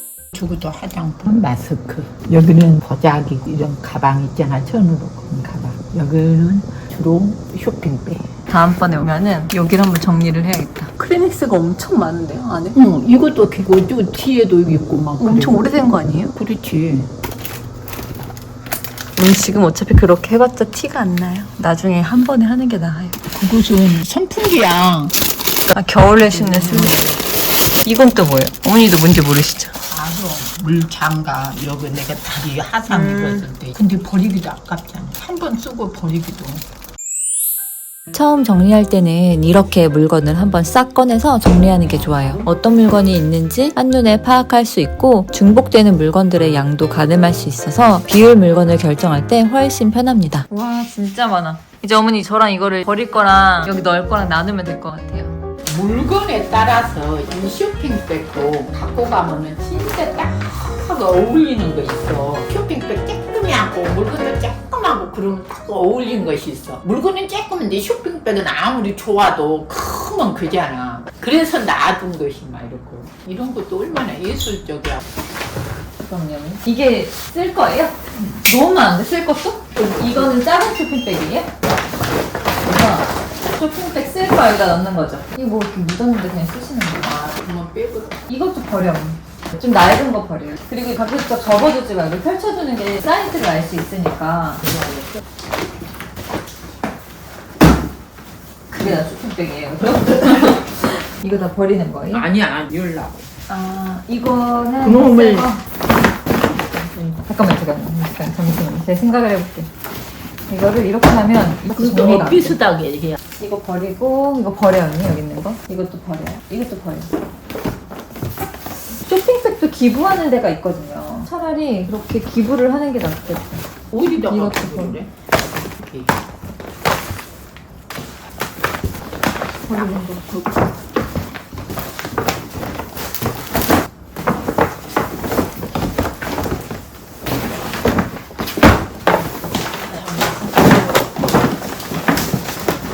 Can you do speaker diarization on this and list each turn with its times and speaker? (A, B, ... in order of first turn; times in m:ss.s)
0:00.3-0:08.3 A
0:08.5-0:12.8 B
0:12.7-0:15.7 A
0:15.2-0:16.4 B
0:16.4-0:17.1 A
0:19.2-0:23.2 B
0:23.4-0:25.2 A
0:25.7-0:27.0 B
0:26.2-0:27.2 A
0:27.8-0:29.7 B
0:29.9-0:36.6 A
0:32.9-0:33.5 B
0:38.1-0:55.4 B
0:41.8-0:42.6 A
0:55.7-1:15.0 A
1:16.0-1:21.5 B
1:19.8-1:20.3 A
1:22.6-1:27.1 B
1:27.0-1:28.2 A
1:28.3-1:34.6 B
1:34.6-1:35.2 A
1:38.7-1:42.3 B
1:38.8-1:39.1 A
1:42.1-1:43.3 A
1:43.5-1:45.6 B
1:44.8-1:45.5 A
1:46.7-1:47.3 A
1:47.3-1:49.7 B
1:50.5-1:52.6 B
1:51.7-1:53.2 A
1:53.4-1:57.1 B
1:59.0-2:03.7 B
2:03.9-2:06.2 A
2:04.3-2:05.0 B
2:09.7-2:10.3 B
2:19.9-2:21.1 A